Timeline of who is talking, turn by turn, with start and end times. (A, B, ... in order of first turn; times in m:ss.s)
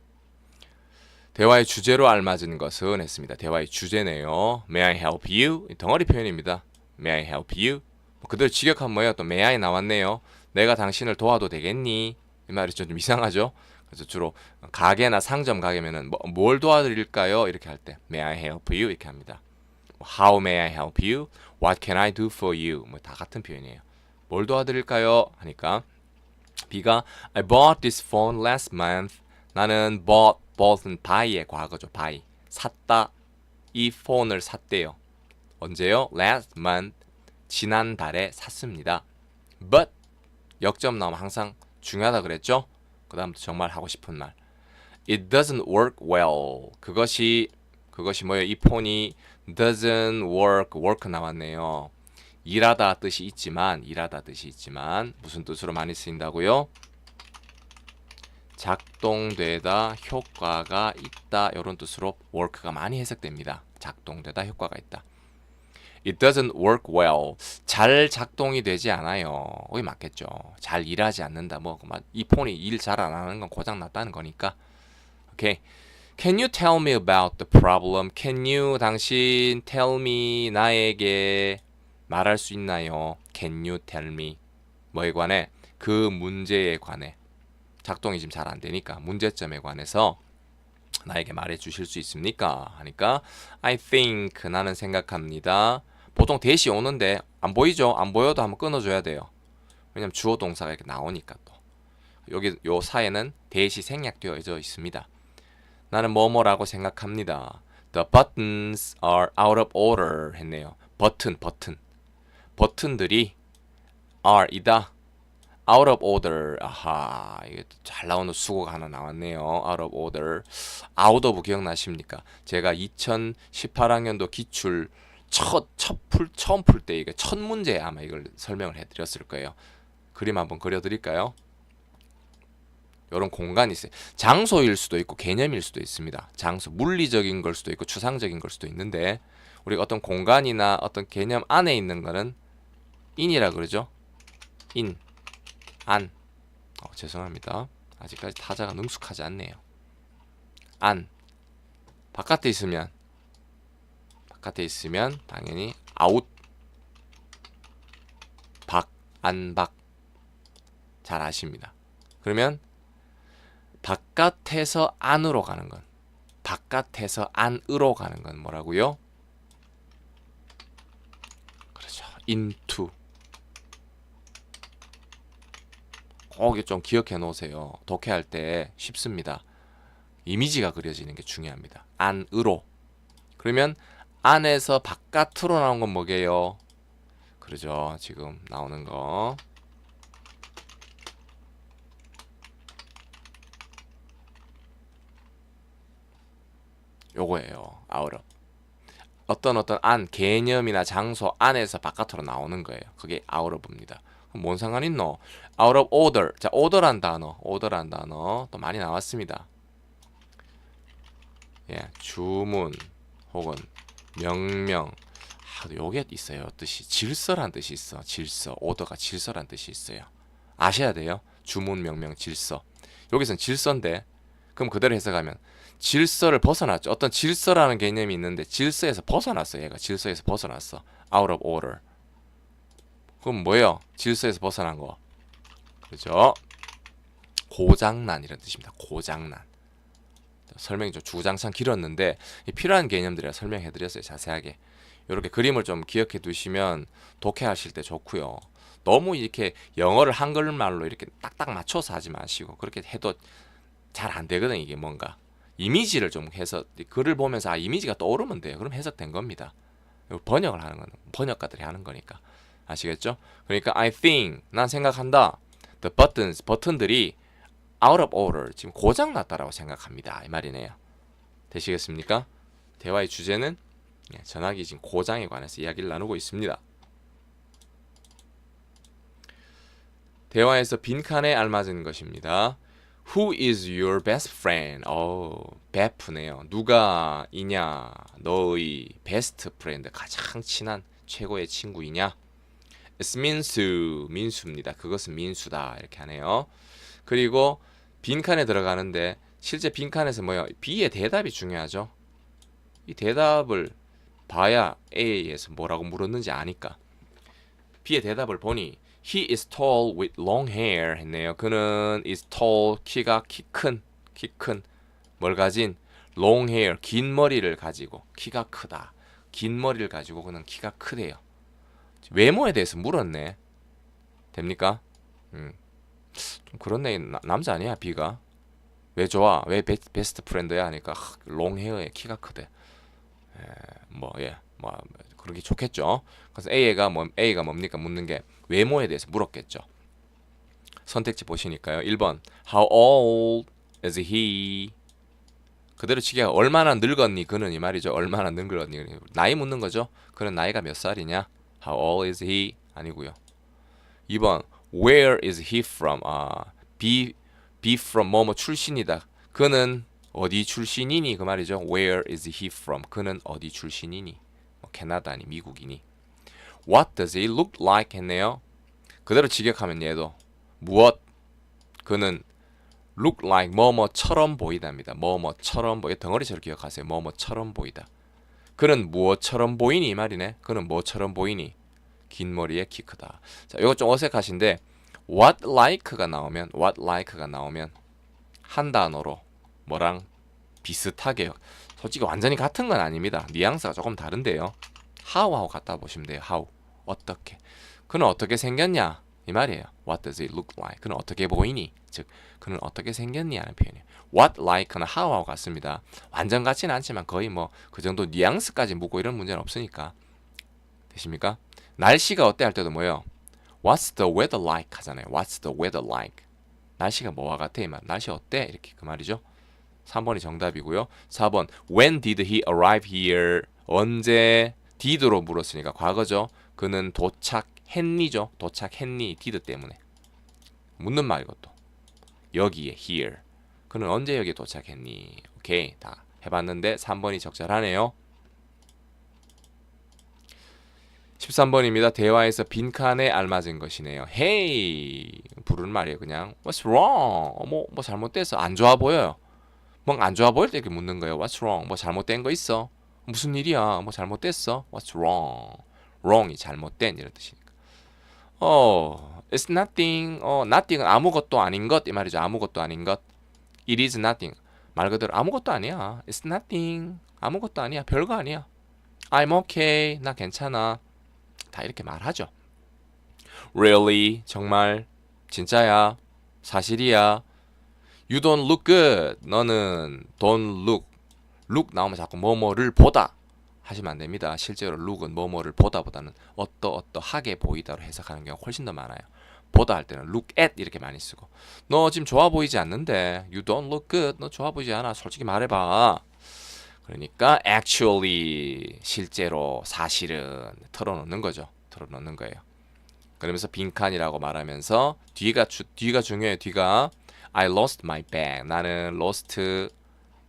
0:01.3-0:19.4 A
0:20.0-0:25.8 A
0:26.7-0:33.1 A
0:33.7-0:35.0 A
0:35.6-0:36.9 A
0:37.5-0:39.0 A
0:39.6-0:39.9 A
0:40.6-0:44.4 A
0:45.1-0:51.9 A
0:52.4-0:56.7 A
0:58.6-1:05.0 A
1:06.0-1:14.6 A
1:15.3-1:15.6 A
1:16.2-1:24.4 A
1:24.9-1:27.2 A
1:27.8-1:30.2 A
1:31.0-1:39.3 A
1:39.9-1:41.6 A
1:42.3-1:45.1 A
1:45.9-1:51.8 A
1:52.6-1:53.3 A
1:54.2-1:54.9 A
1:55.6-2:09.6 A
2:10.1-2:11.3 A
2:13.1-2:22.4 A
2:23.2-2:23.9 A
2:24.7-2:25.0 A
2:25.8-2:26.1 A
2:26.8-2:29.6 A
2:30.8-2:31.1 A
2:32.1-2:32.9 A
2:34.3-2:36.3 A
2:38.7-2:39.7 A
2:41.0-2:42.6 A
2:43.8-2:45.8 A
2:46.4-2:49.0 A
2:51.7-2:52.9 A
2:56.3-2:59.4 A
3:00.2-3:02.6 A
3:03.4-3:06.6 A
3:07.4-3:09.4 A
3:17.1-3:18.2 A
3:19.3-3:29.5 A
3:31.7-3:51.8 A
3:53.2-3:55.0 A
3:55.8-3:56.4 A
3:57.5-3:59.5 A
4:00.5-4:13.2 A
4:13.9-4:19.5 A
4:20.1-4:27.2 A
4:27.8-4:30.8 A
4:31.5-4:32.3 A
4:32.8-4:33.6 A
4:34.1-4:36.6 A
4:40.3-4:52.2 A
4:53.0-4:56.5 A
4:57.0-5:01.9 A
5:02.8-5:03.7 A
5:04.3-5:06.8 A
5:07.8-5:14.6 A
5:15.2-5:21.2 A
5:22.0-5:23.4 A
5:24.3-5:24.8 A
5:25.3-5:25.6 A
5:26.1-5:28.2 A
5:29.0-5:32.5 A
5:33.3-5:39.6 A
5:40.8-5:44.7 A
5:45.8-5:53.2 A
5:54.1-6:05.8 A
6:06.6-6:08.4 A
6:09.0-6:11.0 A
6:11.8-6:12.2 A
6:13.0-6:17.9 A
6:18.6-6:21.5 A
6:22.1-6:27.7 A
6:28.4-6:30.1 A
6:30.6-6:49.9 A
6:50.9-6:53.1 A
6:53.6-6:56.2 A
6:56.8-6:59.2 A
6:59.8-7:09.8 A
7:10.8-7:11.5 A
7:12.3-7:17.9 A
7:21.2-7:29.2 A
7:29.8-7:37.4 A
7:38.4-7:43.0 A
7:43.7-7:48.5 A
7:49.1-7:50.8 A
7:51.5-7:52.3 A
7:53.5-7:57.2 A
7:58.1-8:00.9 A
8:01.5-8:03.1 A
8:03.6-8:16.1 A
8:16.8-8:22.4 A
8:23.2-8:29.7 A